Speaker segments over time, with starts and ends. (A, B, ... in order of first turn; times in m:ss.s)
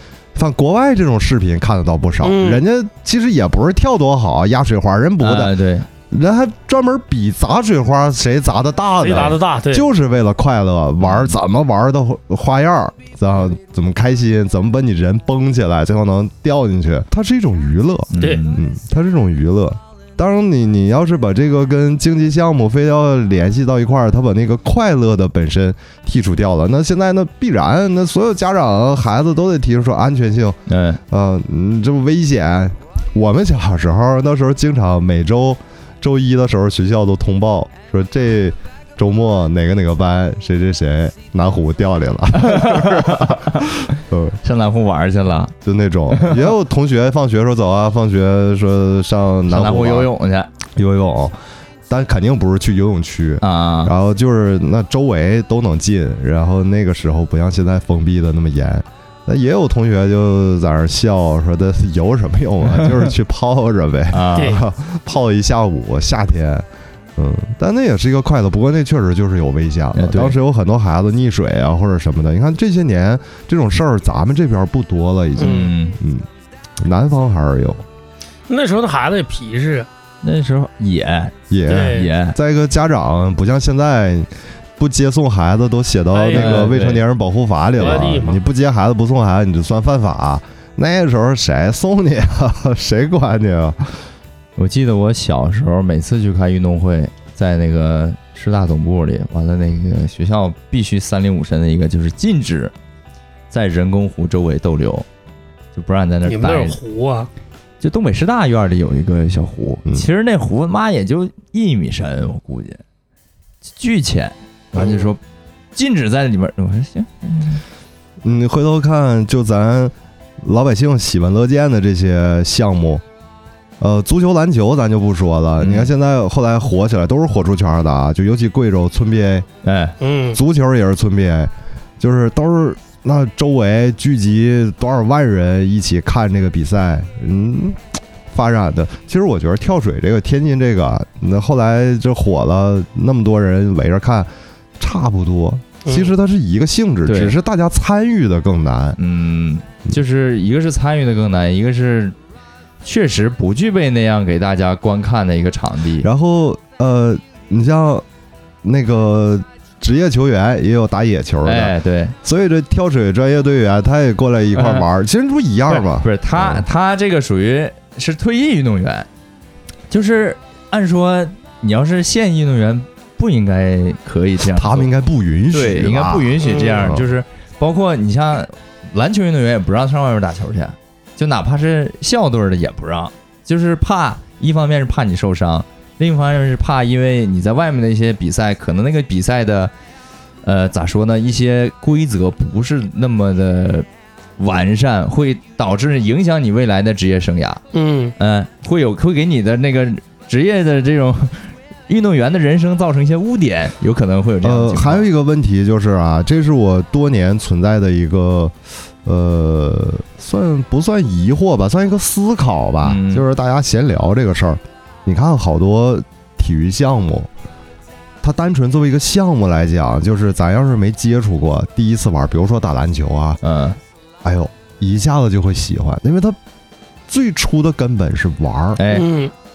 0:00.3-0:05.5 A
0:02.2-0:02.6 B
0:05.2-0:05.9 C
0:06.1-0:44.4 A
0:09.0-0:09.9 B
0:11.0-0:11.3 C
0:18.1-0:18.6 C
0:18.2-0:18.4 B
0:30.7-0:31.0 C
0:42.3-0:43.7 C
0:44.4-0:45.5 C
0:45.6-0:50.1 A
0:46.1-0:46.5 C
0:49.5-0:50.5 C
0:50.7-0:51.3 A
0:51.9-1:16.2 A
0:53.4-0:53.9 C
1:04.1-1:04.6 C
1:09.9-1:10.4 C
1:15.4-1:15.7 B
1:15.4-1:16.0 C
1:16.8-1:17.8 A
1:18.5-1:19.9 B
1:20.2-1:22.4 C
1:21.5-1:34.0 A
1:21.7-1:22.1 B
1:26.1-1:26.7 B
1:26.3-1:27.0 C
1:27.8-1:28.4 B
1:34.6-1:42.7 C
1:43.5-1:45.0 C
1:45.7-1:46.8 C
1:46.2-1:47.3 B
1:47.8-1:52.8 C
1:53.7-1:55.2 C
1:54.7-1:55.1 B
1:55.7-1:57.6 C
1:58.2-2:03.0 A
2:03.8-2:09.5 A
2:05.6-2:05.9 C
2:09.6-2:10.0 C
2:10.0-2:10.4 B
2:10.3-2:29.0 A
2:25.8-2:26.1 B
2:27.0-2:27.4 C
2:29.0-2:32.2 C
2:32.8-2:36.1 C
2:36.0-2:38.0 A
2:38.6-2:46.6 A
2:41.4-2:42.1 C
2:44.5-2:44.8 C
2:45.7-2:49.1 C
2:49.9-2:54.9 C
2:54.5-2:57.0 A
2:55.5-3:09.7 C
2:56.4-2:56.9 B
3:10.4-3:13.9 C
3:14.4-3:17.6 C
3:17.7-3:18.2 B
3:18.2-3:25.1 C
3:24.4-3:37.3 A
3:32.8-3:33.2 C
3:38.2-3:43.4 A
3:43.4-3:43.8 C
3:44.2-3:46.4 A
3:47.1-3:48.8 A
3:48.8-3:49.0 C
3:48.9-3:49.3 B